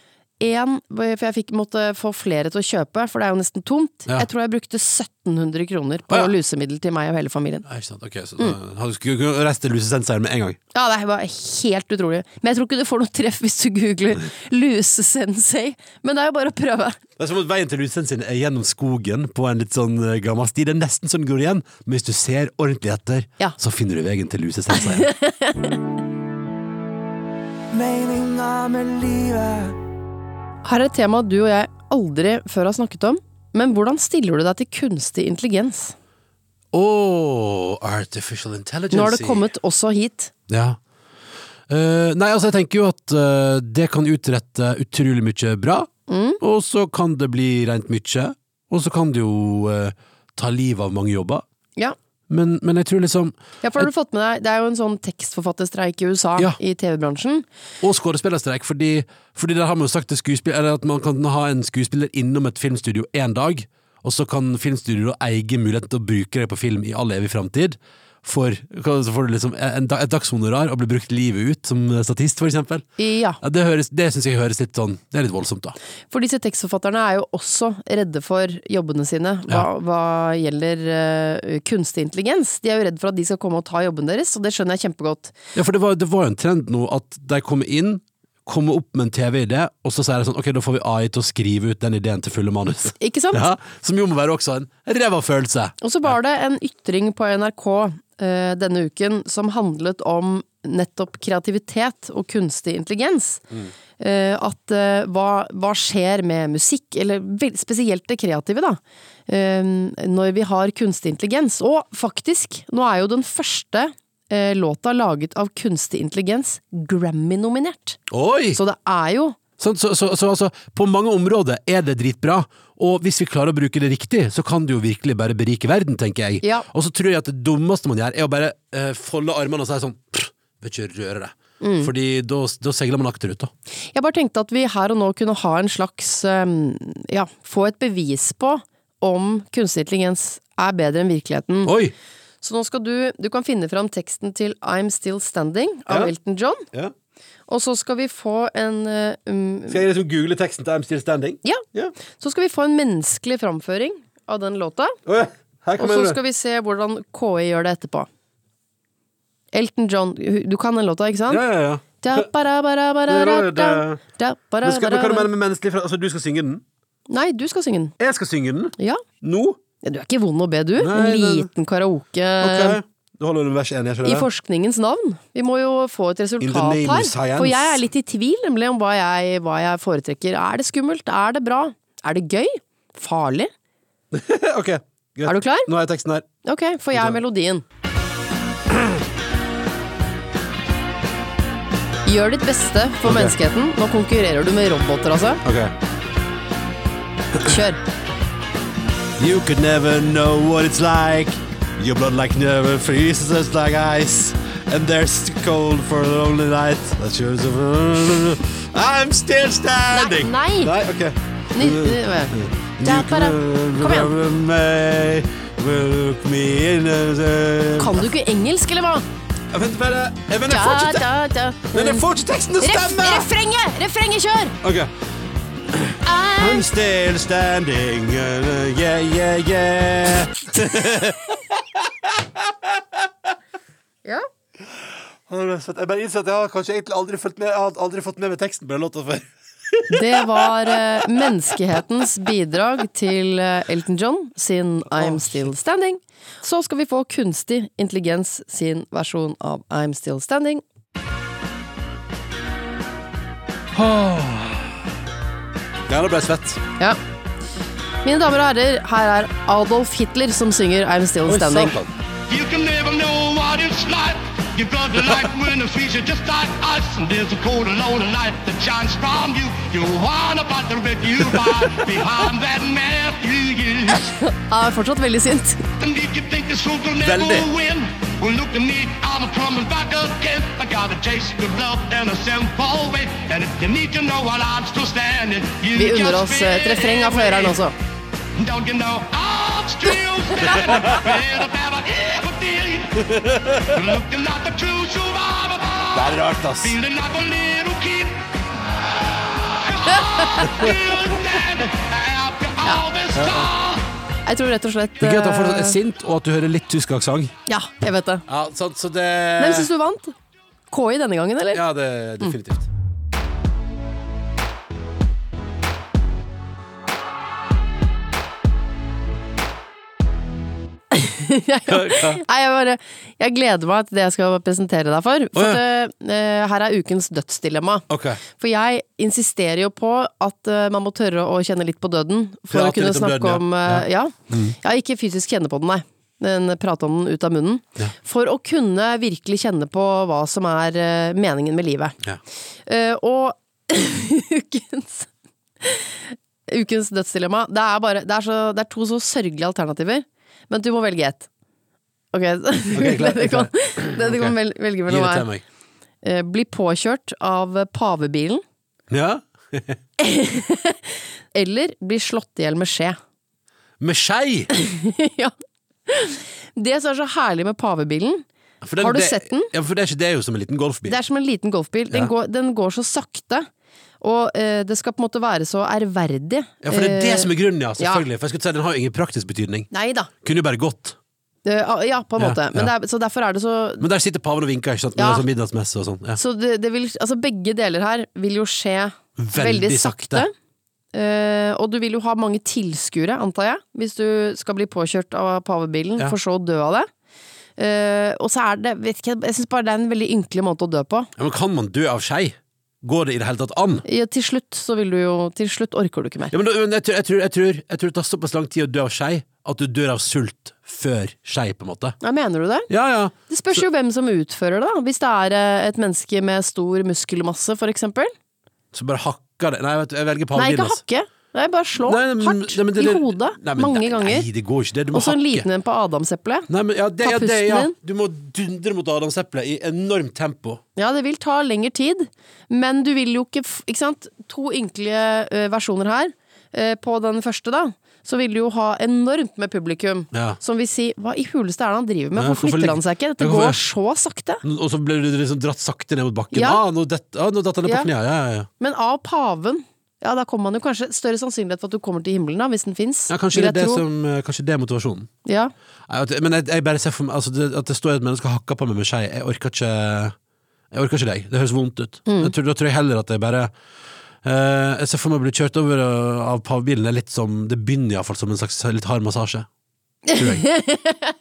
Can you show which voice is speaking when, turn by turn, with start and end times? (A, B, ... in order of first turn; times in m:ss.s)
0:00.4-0:07.6 A
0:06.1-0:06.3 B
0:07.6-0:10.6 B
0:10.7-0:17.0 A
0:17.2-0:25.1 B
0:24.7-0:25.8 A
0:27.7-0:29.8 C
0:30.6-0:36.0 A
0:36.7-0:39.5 B
0:38.9-0:40.3 A
0:40.5-0:40.8 B
0:41.7-0:45.9 B
0:46.1-0:46.4 A
0:46.4-0:51.4 B
0:52.3-0:53.9 B
0:53.6-0:57.5 A
0:57.8-1:12.9 B
1:13.0-1:13.4 A
1:13.4-1:15.8 B
1:16.1-1:25.3 A
1:25.6-1:36.2 B
1:32.9-1:33.4 A
1:35.8-1:43.4 A
1:44.0-1:58.0 A
1:58.1-1:58.6 B
1:58.5-1:59.4 A
1:59.6-2:13.5 B
2:06.4-2:06.7 A
2:11.6-2:11.9 A
2:13.9-2:21.7 A
2:21.6-2:21.9 B
2:22.4-2:26.7 A
2:27.5-2:29.8 A
2:29.7-2:32.0 B
2:31.4-2:35.0 A
2:35.1-2:36.2 B
2:35.8-2:38.1 A
2:39.5-2:41.4 A
2:41.3-2:42.3 B
2:42.0-2:45.3 A
2:43.1-2:44.0 B
2:44.6-2:46.6 B
2:47.1-2:47.9 A
2:48.0-2:49.6 B
2:48.8-2:49.0 A
2:49.8-2:52.8 A
2:50.8-2:51.5 B
2:52.4-2:54.3 B
2:54.0-3:03.5 A
2:56.4-2:57.8 B
3:04.1-3:06.3 B
3:05.3-3:05.7 A
3:06.4-3:07.6 A
3:06.9-3:07.2 B
3:08.7-3:09.0 B
3:12.1-3:15.4 A
3:13.0-3:13.3 B
3:15.4-3:15.8 B
3:17.4-3:17.8 A
3:19.2-3:38.1 B
3:29.9-3:30.7 A
3:31.6-3:34.1 A
3:37.8-3:39.1 A
3:39.5-3:41.1 B
3:40.5-3:42.1 A
3:41.7-3:43.3 B
3:42.6-3:44.6 A
3:44.6-3:44.9 B
3:45.7-3:53.1 B
3:46.0-3:46.7 A
3:54.7-4:01.8 B
3:59.9-4:10.6 A
4:04.9-4:05.4 B
4:13.7-4:14.8 B
4:15.9-4:16.6 B
4:18.0-4:21.7 A
4:21.3-4:21.9 B
4:22.3-4:34.2 D
4:34.3-4:35.6 A
4:35.8-4:47.6 D
4:37.0-4:37.5 B
4:45.7-4:47.7 A
4:48.4-4:58.2 D
4:53.0-4:53.8 B
4:55.9-4:56.8 B
4:59.4-5:03.9 D
5:03.2-5:03.5 B
5:04.3-5:05.8 A
5:05.0-5:07.4 B
5:07.5-5:08.2 A
5:08.3-5:09.7 B
5:09.4-5:10.2 A
5:10.7-5:11.6 A
5:11.5-5:12.7 B
5:20.9-5:42.0 A
5:21.7-5:22.2 B
5:25.4-5:25.6 B
5:27.9-5:28.2 B
5:32.5-5:34.6 B
5:42.7-5:45.1 A
5:45.6-5:51.3 A
5:52.1-5:55.3 A
5:52.7-5:54.4 B
5:54.9-5:55.4 B
5:56.0-5:58.4 A
5:58.9-5:59.8 B
6:00.0-6:03.0 A
6:03.8-6:04.5 B
6:04.5-6:05.3 A
6:05.9-6:08.2 A
6:08.6-6:11.0 B
6:08.8-6:09.5 A
6:10.9-6:13.5 A
6:14.0-6:18.0 A
6:16.6-6:19.7 B
6:19.7-6:20.1 A
6:20.2-6:21.0 B
6:21.4-6:23.9 A
6:22.2-6:22.7 B
6:23.8-6:26.2 B
6:25.0-6:25.3 A
6:26.2-6:30.3 A
6:29.2-6:30.3 B
6:30.9-6:36.9 A
6:37.6-6:41.1 A
6:41.2-6:43.8 B
6:43.9-6:46.3 A
6:46.3-6:52.0 B
6:52.0-6:52.7 A
6:52.7-6:53.6 B
6:53.3-6:58.1 A
6:58.7-7:00.8 B
7:00.4-7:04.3 A
7:01.8-7:05.5 B
7:04.9-7:06.5 A
7:06.5-7:10.6 B
7:07.0-7:07.8 A
7:10.8-7:24.4 A
7:20.1-7:20.4 B
7:22.2-7:23.6 B
7:24.4-7:28.5 B
7:26.3-7:26.6 A
7:28.6-7:33.8 A
7:33.1-7:35.1 B
7:35.2-7:35.5 A
7:35.9-7:40.2 B
7:40.7-7:43.5 B
7:42.1-7:42.3 A
7:44.2-7:49.5 B
7:50.1-7:51.0 A
7:50.1-7:50.5 B